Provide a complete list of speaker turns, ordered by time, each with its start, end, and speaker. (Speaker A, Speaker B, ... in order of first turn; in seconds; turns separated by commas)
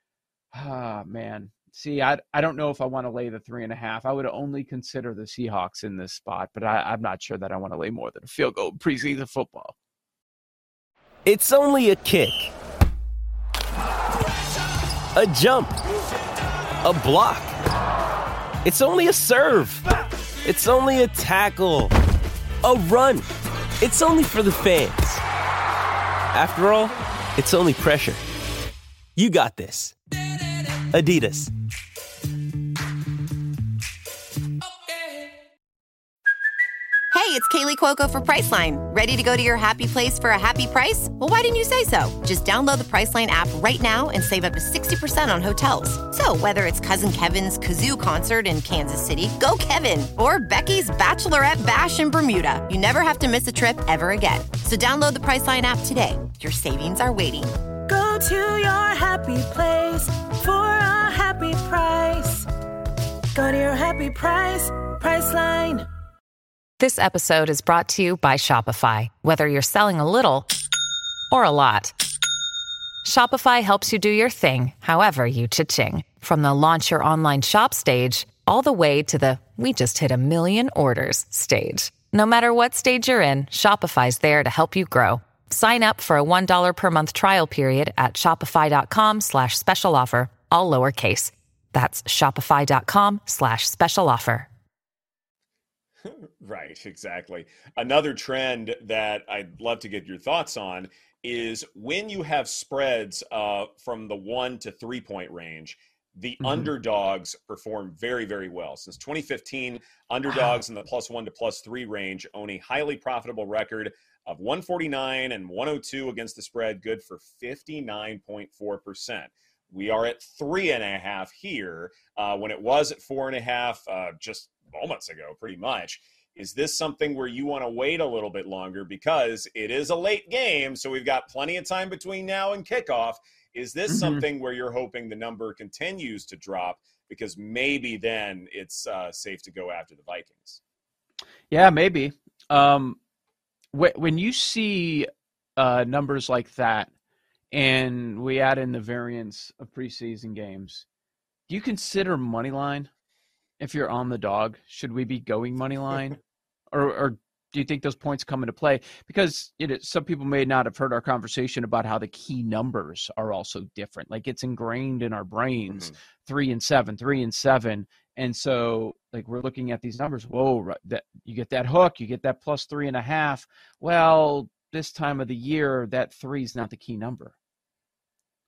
Speaker A: 0.5-9.7, Speaker B: 11.2-12.5, Speaker B: 15.2-15.8, Speaker B: 16.8-17.6, Speaker B: 18.6-19.8, Speaker B: 20.4-21.9, Speaker B: 22.6-23.3, Speaker B: 23.8-25.2, Speaker B: 26.3-28.2, Speaker B: 29.2-29.9, Speaker B: 30.9-31.5, Speaker C: 37.1-57.5, Speaker D: 57.9-62.5, Speaker D: 63.4-65.9, Speaker E: 66.8-70.5, Speaker E: 71.3-72.0, Speaker E: 73.0-94.5, Speaker F: 96.0-140.6, Speaker A: 106.4-106.7, Speaker A: 110.3-110.5, Speaker A: 133.9-134.2, Speaker A: 141.5-143.0, Speaker A: 143.7-146.9, Speaker A: 147.5-150.8, Speaker A: 151.5-152.9, Speaker A: 153.6-156.2, Speaker A: 156.7-177.3